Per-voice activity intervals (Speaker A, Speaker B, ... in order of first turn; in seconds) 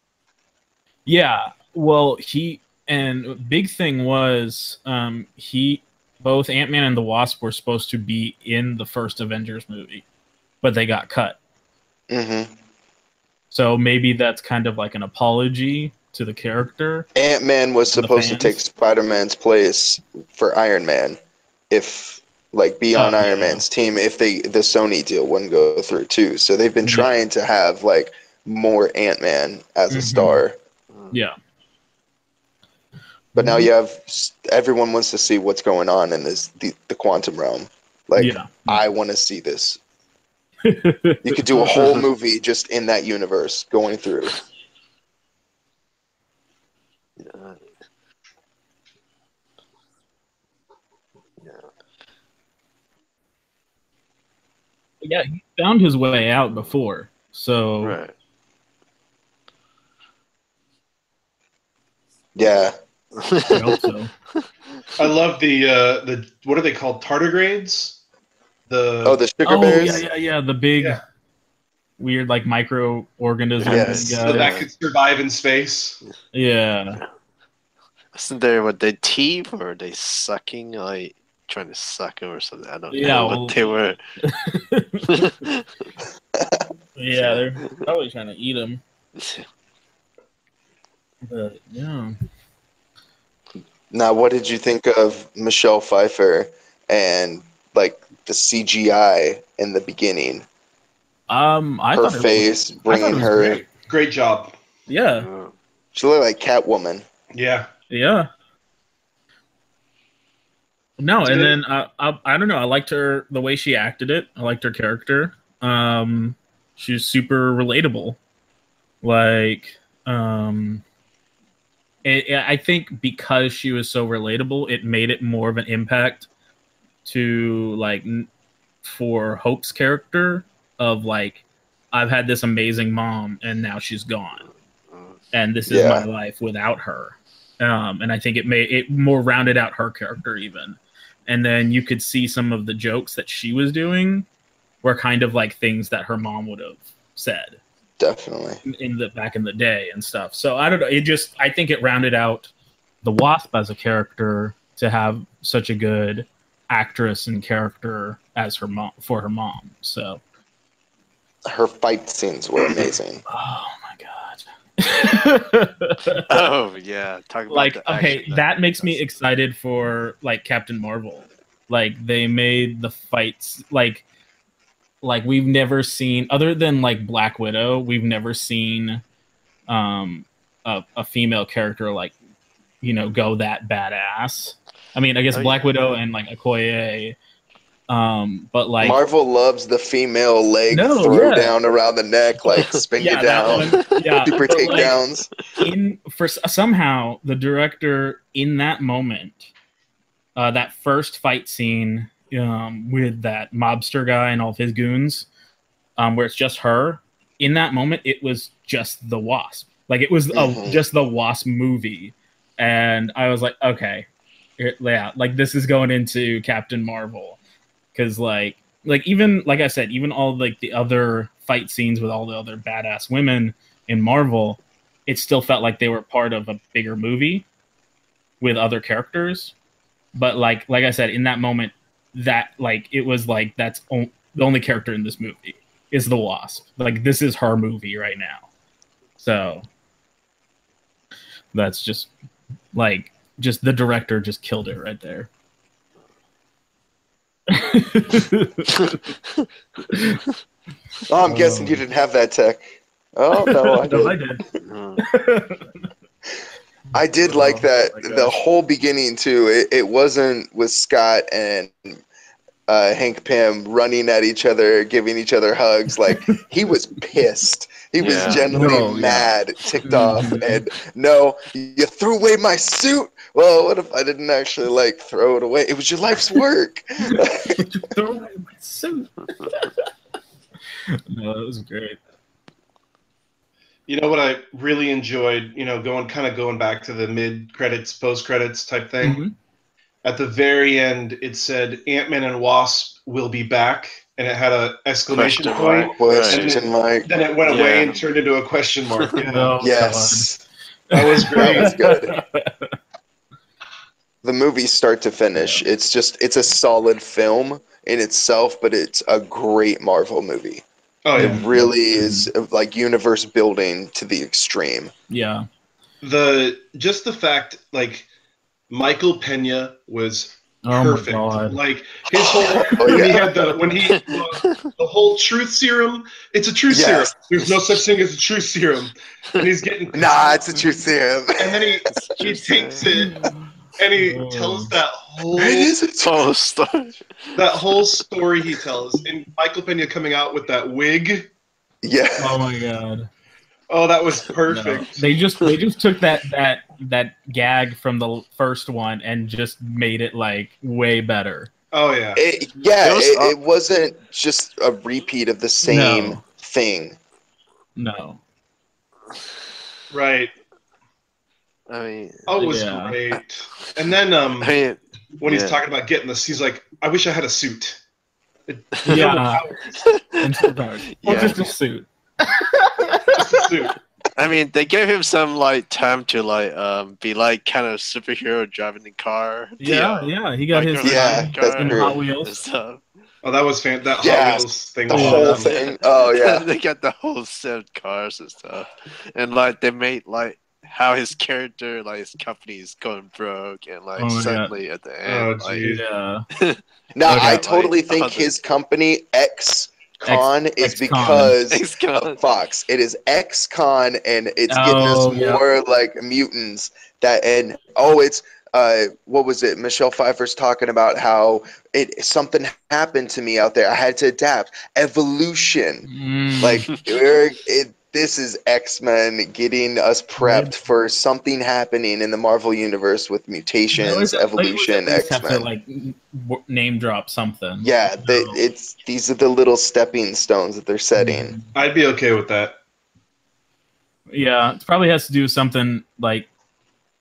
Speaker A: 1.1-10.0, 10.6-11.4, 13.5-17.1, 17.9-18.6, 22.9-23.6, 26.8-27.1, 29.9-30.4, 33.3-33.7, 38.2-38.8, 40.6-42.0, 55.0-58.0, 63.5-64.1, 69.4-71.0, 72.0-74.6, 76.3-77.0, 82.9-83.6, 84.2-85.3, 87.0-88.8, 91.2-92.1, 101.3-103.5, 104.9-105.3, 107.9-108.3, 111.0-118.2, 119.0-120.8, 122.0-126.3, 127.0-128.3, 128.8-134.4, 135.3-144.3, 144.8-147.6, 148.6-152.5, 153.0-160.2, 163.3-166.3, 167.5-174.0, 175.0-179.0, 179.7-182.1, 182.8-187.2, 187.9-189.0, 190.7-191.5, 193.0-195.0, 195.6-199.5, 200.3-205.3, 206.0-217.4, 217.9-227.4, 228.4-229.5, 230.1-238.5, 239.2-239.7, 241.5-242.1, 242.7-245.3, 247.5-249.0, 249.9-250.2, 251.2-251.8, 253.4-254.4, 255.0-255.7, 257.2-258.3, 268.0-269.3, 269.8-270.6, 277.0-279.8, 280.9-282.0, 289.0-289.3, 299.2-300.3, 300.9-302.7, 305.4-305.6, 311.2-312.3, 315.1-315.4, 320.6-321.6, 333.0-333.3, 334.0-334.7, 342.2-343.1, 344.5-351.5, 355.6-356.2, 357.8-358.2, 362.4-363.0, 368.8-369.4, 370.2-373.2, 379.6-382.4, 384.9-385.3, 394.0-394.5, 395.6-396.2, 397.1-397.4, 400.1-401.4, 404.5-405.4, 415.8-416.7, 420.2-420.5, 423.7-428.4, 430.9-431.5, 434.1-436.3
Speaker B: 12.1-12.5, 17.1-21.2, 21.7-30.6, 33.3-39.8, 41.2-44.4, 62.4-62.7, 69.0-70.0, 73.7-74.3, 86.3-86.6, 93.9-100.4, 101.9-103.6, 105.9-107.0, 135.7-136.1, 148.0-148.6, 161.4-163.2, 188.8-195.3, 210.3-210.8, 251.1-252.6, 253.2-254.2, 256.9-262.0, 262.7-277.6, 295.9-297.1, 299.6-300.4, 301.3-302.1, 304.2-310.6, 311.1-314.9, 322.2-323.5, 326.7-327.1, 329.9-331.8, 335.3-336.3, 341.8-342.4, 352.1-357.0, 380.8-382.0, 384.0-386.4, 396.9-415.9, 416.4-425.5, 427.6-431.4
Speaker C: 47.2-47.6, 57.8-58.1, 63.1-63.8, 64.3-64.8, 73.6-74.6, 78.1-84.0, 85.1-85.6, 87.1-87.8, 89.2-89.4, 105.2-105.5, 134.9-135.2, 166.3-169.0, 185.3-185.8, 248.9-249.5, 254.6-255.0, 268.0-268.5, 295.1-296.5, 297.4-298.0, 323.8-324.7, 331.9-332.9, 336.0-337.6, 352.8-353.3, 361.7-362.3, 364.4-365.6, 368.8-369.1, 369.8-371.4, 374.1-379.6, 380.5-382.8, 385.2-395.7, 396.3-398.3, 401.5-402.2
Speaker D: 65.0-68.0, 68.7-69.2, 74.2-76.0, 103.2-104.5, 107.3-107.7, 111.2-111.5, 283.9-289.2, 290.0-299.6, 300.9-301.8, 311.0-311.4, 316.0-318.1, 318.7-330.2, 331.4-333.2, 333.8-335.7, 337.4-341.3, 343.7-345.0, 351.7-352.2, 359.9-360.3, 362.3-364.5, 365.2-367.8, 368.5-369.9, 371.1-371.4, 373.1-373.8, 379.6-380.1, 383.2-385.5, 395.0-395.8, 431.5-432.6